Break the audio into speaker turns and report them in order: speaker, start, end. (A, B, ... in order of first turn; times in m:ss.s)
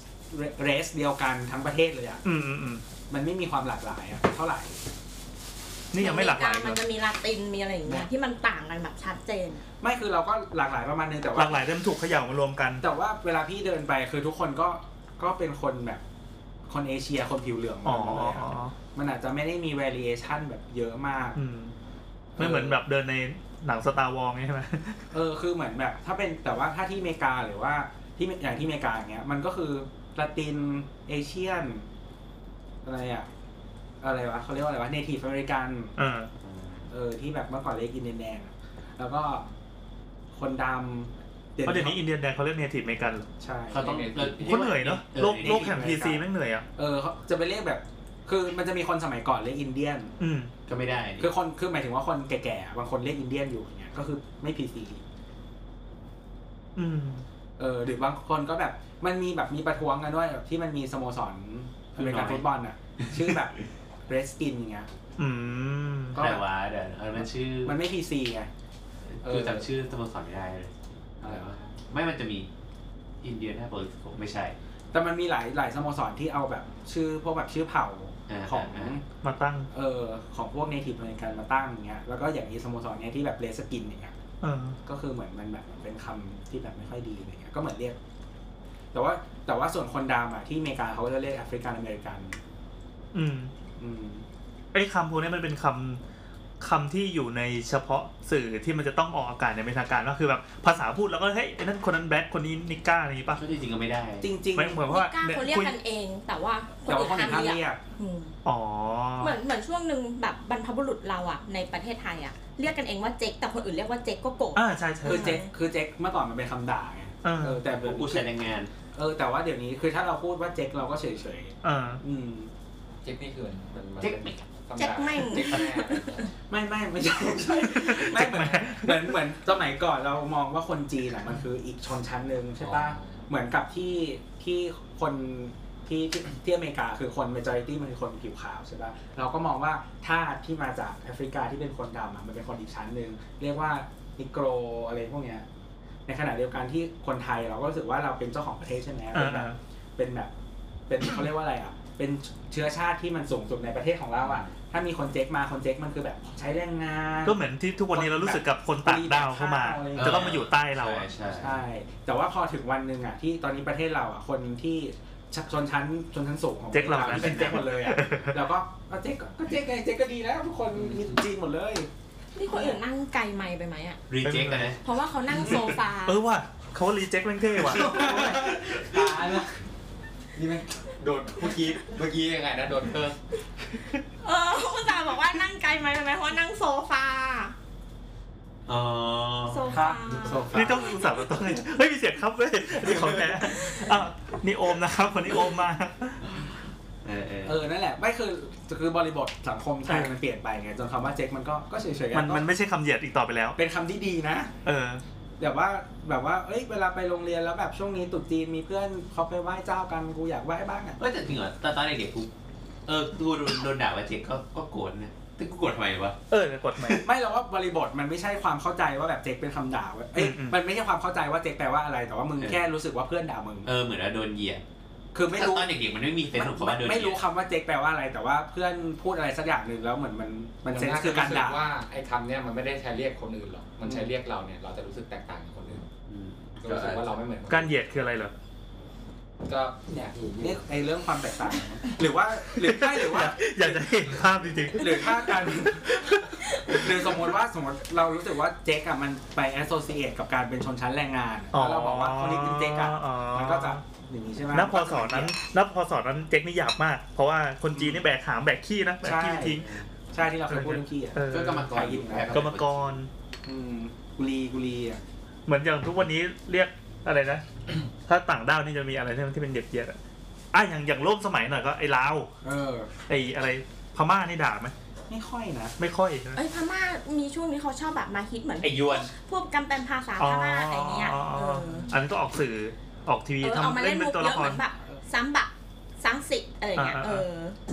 0:00.3-0:02.2 A
0:02.2-0:02.8 B
0:03.1-0:04.8 A
0:05.9-0:06.8 B
0:06.0-0:09.6 C
0:09.8-0:11.6 A
0:11.4-0:12.8 B
0:12.8-0:16.0 A
0:16.7-0:21.4 A
0:17.8-0:18.7 B
0:21.4-0:21.7 B
0:22.4-0:22.8 A
0:22.4-0:25.0 B
0:25.1-0:31.8 A
0:32.8-0:33.3 A
0:34.0-0:35.9 A
0:36.0-0:36.3 B
0:36.4-0:36.8 D
0:36.9-0:39.4 A
0:40.3-0:42.0 A
0:41.6-0:43.3 B
0:43.4-0:44.0 A
0:43.7-0:45.9 D
0:43.7-0:44.7 E
0:44.4-0:46.6 B
0:45.2-0:46.2 A
0:46.8-0:50.1 A
0:50.2-0:50.5 B
0:50.7-0:51.3 D
0:51.2-0:55.0 A
0:56.8-0:57.2 B
0:57.6-1:04.9 A
1:02.0-1:02.5 D
1:03.0-1:03.4 D
1:05.2-1:06.2 B
1:06.1-1:06.4 A
1:06.1-1:07.8 D
1:07.6-1:08.5 A
1:09.0-1:12.5 D
1:09.2-1:09.6 A
1:11.2-1:11.5 A
1:13.2-1:14.6 D
1:14.9-1:19.0 A
1:18.3-1:19.0 D
1:19.2-1:19.7 B
1:19.7-1:24.1 A
1:24.4-1:24.8 B
1:24.8-1:28.0 A
1:28.9-1:32.4 A
1:33.1-1:33.5 B
1:33.8-1:34.2 A
1:34.7-1:36.0 B
1:36.6-1:43.4 B
1:43.3-1:44.3 D
1:44.2-1:44.8 A
1:44.5-1:45.8 B
1:44.8-1:48.3 C
1:46.9-1:47.8 A
1:48.4-1:49.4 B
1:49.2-1:55.5 C
1:54.6-1:55.4 B
1:55.0-1:58.3 A
1:57.2-1:57.6 B
1:57.7-1:58.7 D
1:58.9-2:02.5 A
2:01.6-2:02.0 B
2:03.0-2:06.3 E
2:04.0-2:04.3 D
2:04.8-2:06.3 C
2:06.5-2:25.4 A
2:07.5-2:09.2 B
2:12.6-2:13.2 E
2:26.0-2:30.3 A
2:29.1-2:29.6 B
2:30.9-2:37.4 A
2:34.2-2:34.6 D
2:37.2-2:41.1 B
2:37.9-2:40.4 A
2:39.9-2:41.6 D
2:41.3-2:51.9 A
2:46.7-2:48.4 B
2:47.1-2:47.5 D
2:52.3-2:54.0 C
2:54.1-2:54.8 D
2:54.2-2:54.8 B
2:54.8-2:56.2 C
2:56.0-2:58.1 B
2:57.7-2:59.5 E
2:57.7-2:59.4 A
2:58.0-2:59.0 D
3:00.3-3:03.2 E
3:04.2-3:07.5 C
3:08.7-3:10.9 D
3:09.5-3:10.7 C
3:09.7-3:10.8 E
3:10.5-3:16.3 B
3:12.8-3:13.4 D
3:17.0-3:17.6 D
3:17.4-3:22.4 A
3:19.9-3:20.2 B
3:22.1-3:23.6 B
3:23.6-3:24.5 A
3:24.6-3:25.0 B
3:25.4-3:31.0 A
3:31.0-3:32.3 D
3:32.8-3:36.2 D
3:36.3-3:37.0 B
3:36.8-3:37.0 D
3:37.0-3:43.7 A
3:40.1-3:40.6 B
3:42.4-3:42.6 D
3:43.6-3:44.6 D
3:45.1-3:45.7 A
3:45.3-3:47.2 D
3:46.3-3:51.7 A
3:50.7-3:55.8 E
3:53.8-3:54.1 A
3:56.1-3:57.1 D
3:56.6-3:57.7 E
3:57.5-3:58.3 B
3:59.4-4:00.7 E
4:00.3-4:03.8 A
4:02.6-4:07.2 B
4:04.7-4:06.1 A
4:06.6-4:15.3 A
4:11.5-4:13.8 B
4:14.5-4:19.7 B
4:17.7-4:18.0 A
4:19.0-4:22.4 A
4:19.6-4:19.9 D
4:20.5-4:23.1 B
4:21.3-4:23.0 D
4:23.4-4:25.0 A
4:25.5-4:27.4 B
4:28.0-4:30.0 B
4:30.5-4:32.3 B
4:32.4-4:32.9 A
4:33.1-4:34.7 B
4:35.1-4:35.7 A
4:35.8-4:36.4 B
4:36.3-4:41.9 C
4:38.6-4:39.1 D
4:40.2-4:44.6 B
4:43.4-4:47.6 C
4:46.8-4:47.2 B